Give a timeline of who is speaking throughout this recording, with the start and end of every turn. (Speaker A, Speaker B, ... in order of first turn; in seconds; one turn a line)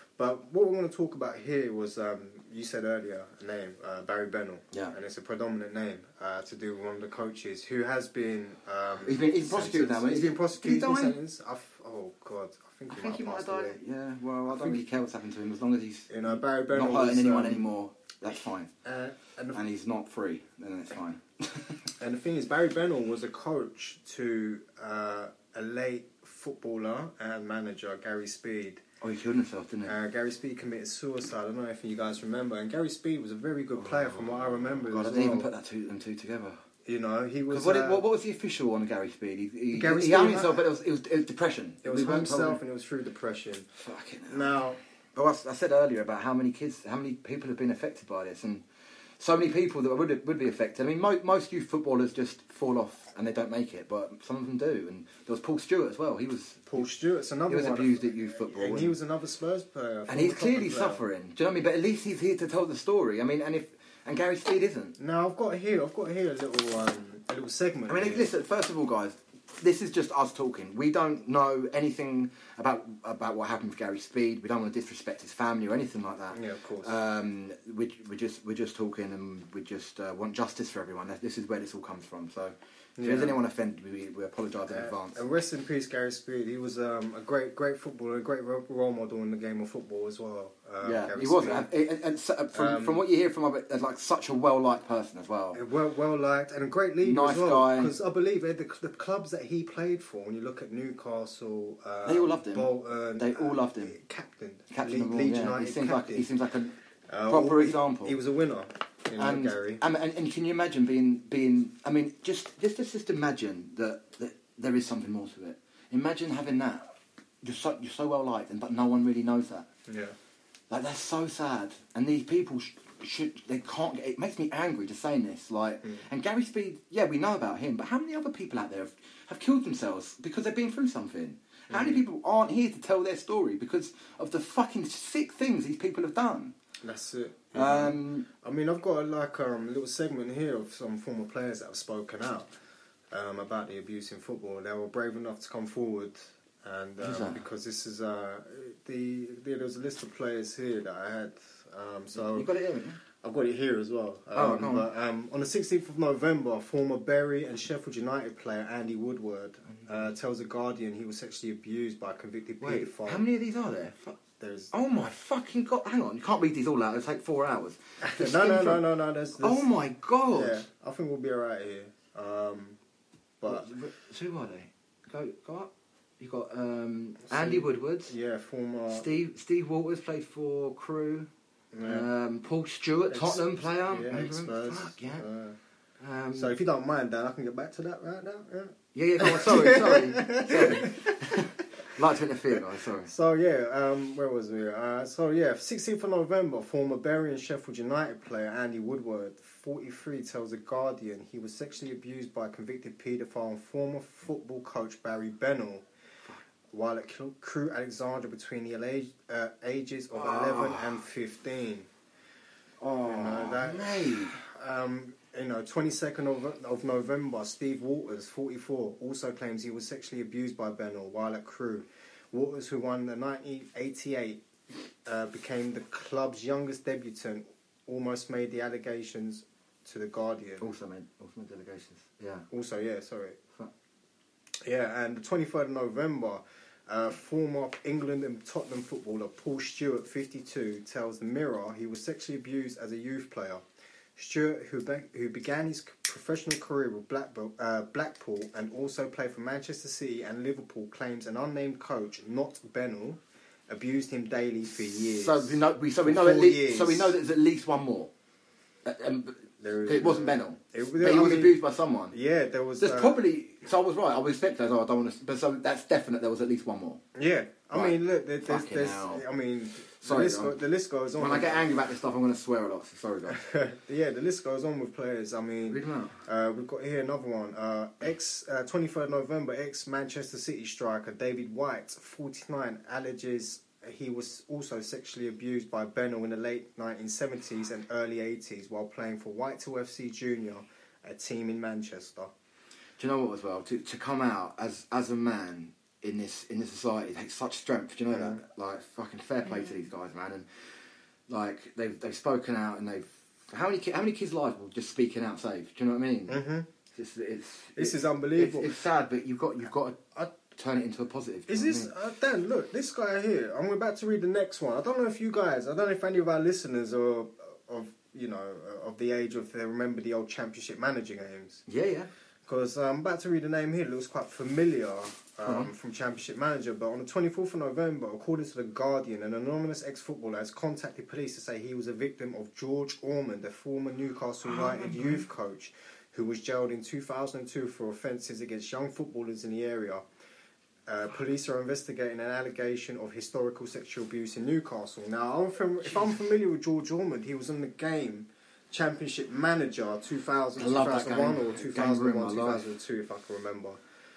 Speaker A: 0.2-13.8
Speaker B: 9.0-11.2
Speaker B: 12.9-18.7
Speaker A: 14.5-14.8
Speaker A: 16.1-17.7
Speaker A: 18.9-19.6
Speaker B: 19.5-21.8
Speaker A: 22.0-28.8
Speaker B: 29.0-29.9
Speaker A: 29.9-35.5
Speaker B: 33.8-36.6
Speaker A: 36.9-38.0
Speaker B: 37.5-42.6
Speaker A: 39.7-40.6
Speaker A: 41.8-43.7
Speaker B: 43.8-44.6
Speaker A: 44.3-44.8
Speaker B: 45.1-48.6
Speaker B: 49.2-56.9
Speaker A: 56.7-61.0
Speaker B: 57.5-59.0
Speaker B: 60.1-65.0
Speaker A: 65.0-68.3
Speaker B: 67.9-85.2
Speaker A: 76.3-76.9
Speaker A: 83.0-83.4
Speaker A: 84.7-91.7
Speaker B: 90.8-95.6
Speaker A: 92.5-93.0
Speaker A: 95.5-106.3
Speaker B: 97.0-97.9
Speaker B: 102.0-104.0
Speaker B: 104.7-106.8
Speaker A: 107.1-109.8
Speaker B: 107.3-108.2
Speaker B: 109.2-116.9
Speaker B: 117.4-119.7
Speaker A: 119.9-120.2
Speaker B: 120.7-136.5
Speaker A: 131.7-132.0
Speaker A: 136.8-142.5
Speaker B: 137.6-138.3
Speaker A: 143.1-152.5
Speaker B: 147.0-147.4
Speaker B: 152.2-153.0
Speaker A: 153.2-163.2
Speaker B: 154.3-154.9
Speaker B: 162.6-164.2
Speaker A: 164.4-164.7
Speaker B: 164.7-168.8
Speaker A: 168.0-169.7
Speaker B: 169.4-170.7
Speaker A: 170.3-172.8
Speaker A: 173.4-173.7
Speaker B: 173.5-178.1
Speaker A: 177.3-179.1
Speaker B: 178.9-181.3
Speaker A: 181.7-182.1
Speaker B: 181.8-185.3
Speaker A: 183.1-185.6
Speaker B: 186.0-186.6
Speaker A: 186.3-191.5
Speaker B: 188.9-193.1
Speaker A: 193.1-205.8
Speaker A: 206.7-211.9
Speaker B: 210.1-211.0
Speaker B: 212.8-214.4
Speaker A: 213.1-224.4
Speaker A: 225.1-230.7
Speaker B: 230.6-232.5
Speaker A: 232.5-233.4
Speaker A: 234.7-243.6
Speaker A: 244.2-257.2
Speaker B: 254.9-258.1
Speaker B: 258.9-262.1
Speaker A: 259.6-261.6
Speaker A: 262.1-263.2
Speaker B: 262.8-267.0
Speaker A: 267.1-271.7
Speaker B: 267.7-269.2
Speaker B: 270.0-270.6
Speaker B: 271.2-273.4
Speaker A: 273.3-292.3
Speaker B: 275.7-276.2
Speaker B: 293.0-300.5
Speaker A: 298.1-298.4
Speaker B: 301.3-306.4
Speaker A: 306.3-306.7
Speaker B: 306.9-311.9
Speaker A: 307.8-308.7
Speaker A: 311.5-321.6
Speaker B: 321.7-322.1
Speaker A: 322.5-340.0
Speaker B: 325.4-325.7
Speaker B: 334.4-335.2
Speaker A: 340.9-353.8
Speaker B: 350.6-352.6